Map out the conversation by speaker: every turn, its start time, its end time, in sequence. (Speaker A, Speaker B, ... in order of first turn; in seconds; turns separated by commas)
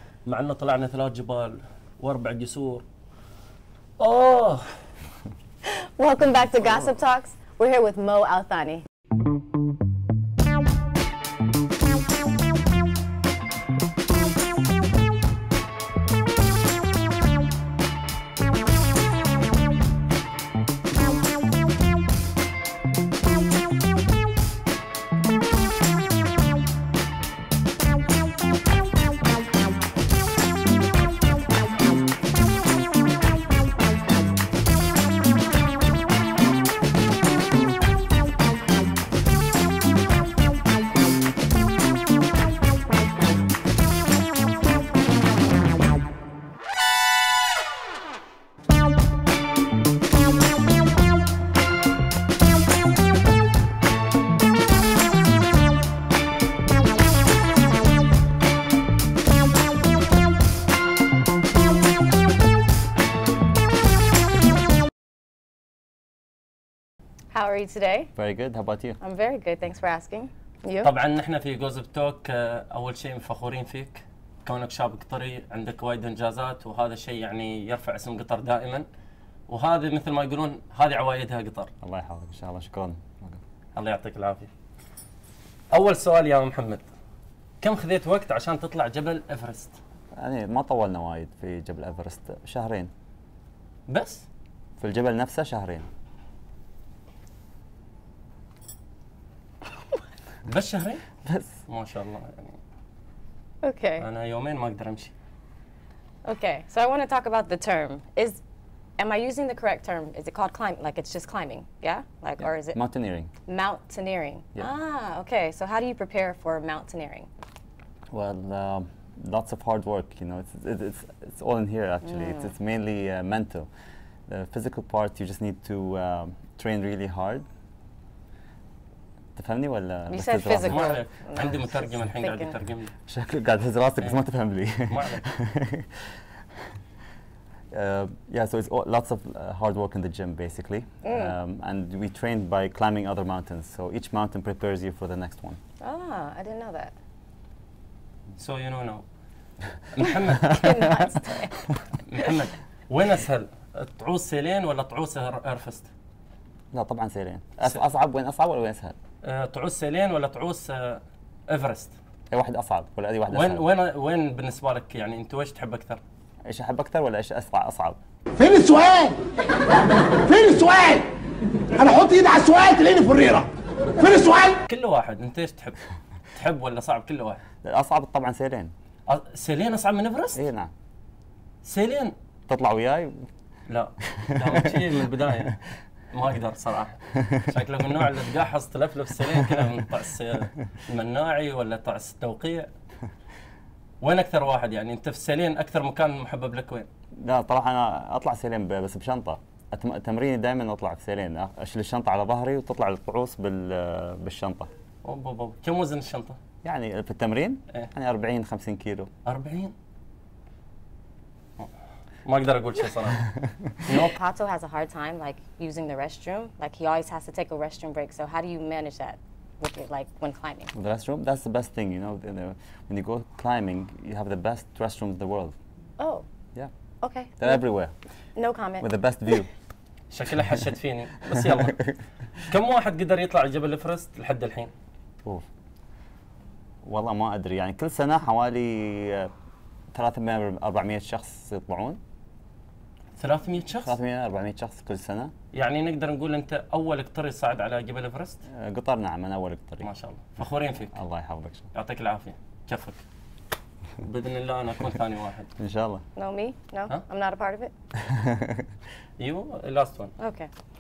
Speaker A: 0.3-2.9, Speaker A: 4.0-4.7, Speaker B: 5.7-8.8, Speaker B: 67.3-68.1, Speaker C: 68.2-69.0, Speaker B: 69.0-70.9, Speaker A: 70.8-78.9, Speaker A: 79.5-81.7, Speaker C: 81.8-83.4, Speaker A: 83.8-84.5, Speaker A: 85.7-86.9, Speaker A: 87.6-89.8, Speaker C: 90.2-92.9, Speaker A: 93.9-94.3, Speaker C: 94.8-95.9, Speaker A: 100.5-101.0, Speaker C: 101.2-101.5, Speaker A: 101.7-102.6, Speaker B: 103.6-104.0, Speaker A: 104.0-105.1, Speaker B: 106.2-108.4, Speaker B: 109.0-112.8, Speaker C: 112.7-113.3, Speaker B: 113.5-117.3, Speaker C: 118.1-123.7, Speaker B: 122.0-122.5, Speaker C: 124.3-127.5, Speaker C: 129.4-131.0, Speaker B: 130.1-132.6, Speaker A: 130.7-132.9, Speaker C: 133.1-136.2, Speaker A: 134.8-135.2, Speaker C: 137.7-145.6, Speaker B: 141.0-141.4, Speaker B: 145.8-146.9, Speaker A: 148.4-149.0, Speaker A: 149.9-150.6, Speaker B: 150.4-151.6, Speaker A: 152.1-155.9, Speaker C: 156.7-159.0, Speaker A: 159.2-162.0, Speaker C: 162.3-163.7, Speaker A: 163.3-166.0, Speaker C: 166.5-168.0, Speaker D: 168.4-169.2, Speaker D: 170.1-171.1, Speaker D: 171.7-174.6, Speaker A: 174.7-175.8, Speaker A: 176.3-177.4, Speaker C: 177.6-178.7, Speaker A: 179.1-180.4, Speaker C: 180.3-180.7, Speaker A: 181.7-182.2, Speaker C: 182.5-183.3, Speaker A: 183.7-185.6, Speaker C: 184.1-184.9, Speaker A: 186.1-192.7, Speaker A: 194.0-196.9, Speaker C: 197.2-204.7, Speaker A: 205.1-206.4, Speaker C: 206.6-209.1, Speaker A: 209.3-209.7, Speaker A: 212.2-213.3, Speaker A: 213.8-214.2, Speaker B: 213.9-220.7, Speaker C: 220.8-225.6, Speaker B: 226.0-226.3, Speaker B: 227.0-227.6, Speaker C: 227.4-227.9, Speaker B: 228.4-228.9, Speaker C: 228.8-229.5, Speaker A: 230.1-231.9, Speaker A: 232.4-234.7, Speaker C: 236.8-239.3, Speaker C: 239.9-242.0, Speaker A: 243.2-244.0, Speaker C: 243.8-245.3, Speaker A: 245.5-248.4, Speaker C: 248.5-249.9, Speaker A: 249.8-251.0, Speaker C: 250.9-251.7, Speaker A: 251.7-253.0, Speaker A: 254.0-255.5, Speaker C: 255.6-256.0, Speaker B: 256.2-257.7, Speaker C: 258.0-258.7, Speaker A: 259.2-260.1, Speaker B: 260.2-260.5